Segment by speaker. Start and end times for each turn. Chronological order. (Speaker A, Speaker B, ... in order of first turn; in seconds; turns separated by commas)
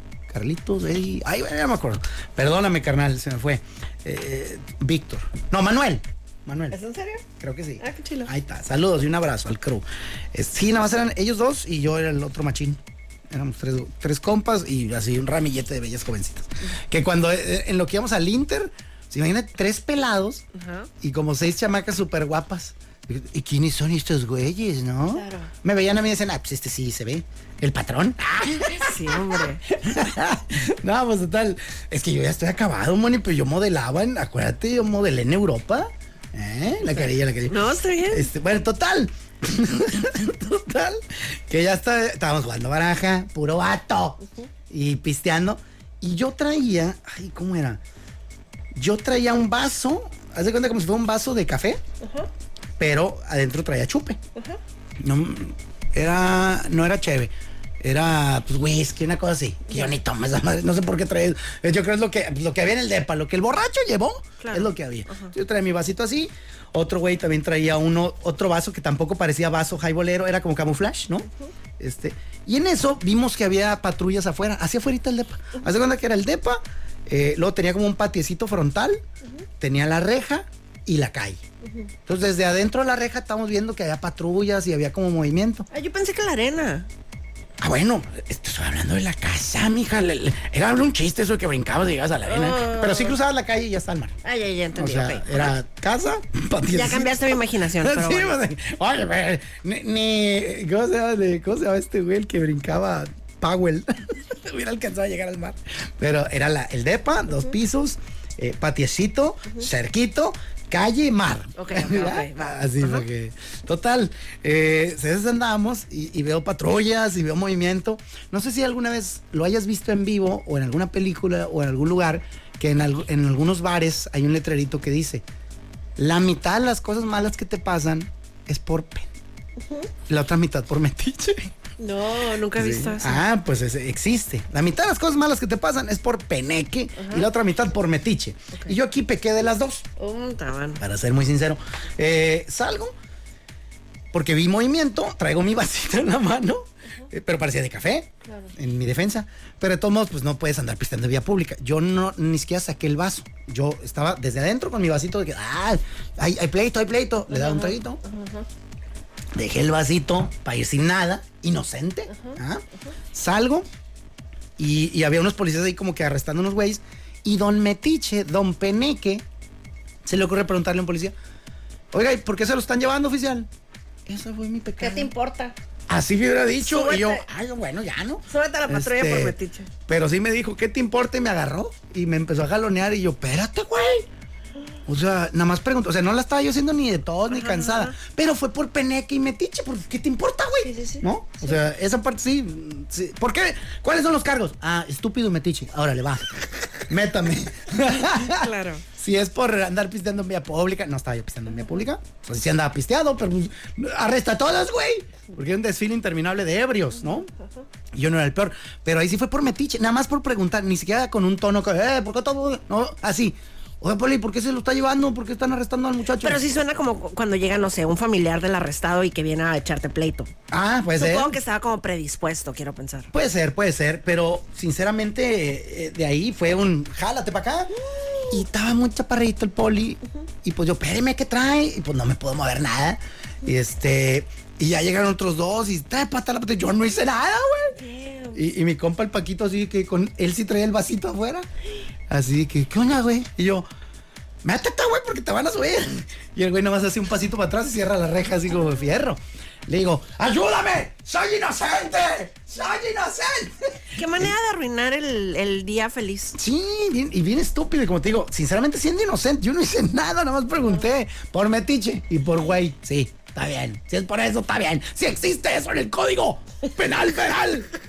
Speaker A: 0.3-6.8, Speaker B: 6.7-7.2, Speaker A: 7.4-20.4, Speaker B: 7.8-8.3, Speaker B: 20.5-20.9, Speaker A: 21.0-47.8, Speaker B: 25.1-25.5, Speaker B: 28.6-29.6, Speaker B: 36.9-38.3, Speaker B: 44.2-44.5, Speaker A: 48.7-51.8, Speaker B: 52.0-52.3, Speaker A: 52.8-54.2, Speaker A: 55.0-71.3, Speaker B: 59.7-60.0, Speaker B: 64.4-65.3, Speaker A: 71.8-79.0, Speaker A: 79.6-81.4, Speaker B: 81.6-81.9, Speaker A: 82.0-85.7, Speaker B: 85.7-86.9, Speaker A: 87.6-94.2, Speaker B: 92.2-93.2, Speaker B: 94.2-95.5, Speaker A: 94.7-125.2, Speaker B: 96.7-98.4, Speaker B: 111.6-113.0, Speaker A: 126.0-129.1, Speaker B: 129.6-129.9, Speaker A: 130.1-131.5, Speaker B: 131.8-133.2, Speaker A: 132.5-139.9, Speaker B: 136.9-137.3, Speaker B: 140.0-140.8, Speaker A: 140.8-142.9, Speaker A: 144.1-158.0, Speaker B: 148.2-148.5, Speaker B: 157.3-158.5, Speaker A: 159.3-163.7, Speaker B: 162.1-162.9, Speaker A: 164.6-169.2, Speaker A: 170.0-171.1, Speaker A: 171.9-173.5, Speaker A: 174.1-175.1, Speaker B: 174.8-175.5, Speaker A: 175.9-184.1, Speaker B: 176.6-177.2, Speaker B: 178.3-179.7, Speaker A: 184.8-196.3, Speaker B: 187.3-187.9, Speaker B: 190.6-191.6, Speaker A: 196.9-207.3, Speaker B: 198.3-198.8, Speaker A: 207.9-216.4, Speaker B: 216.2-220.3, Speaker A: 220.5-221.3, Speaker B: 221.0-223.1, Speaker A: 223.1-227.7, Speaker B: 227.7-228.4, Speaker A: 228.3-237.8, Speaker B: 237.7-238.4, Speaker A: 238.3-241.5, Speaker A: 242.1-243.7, Speaker A: 244.4-254.3, Speaker B: 253.9-256.4, Speaker A: 256.3-267.7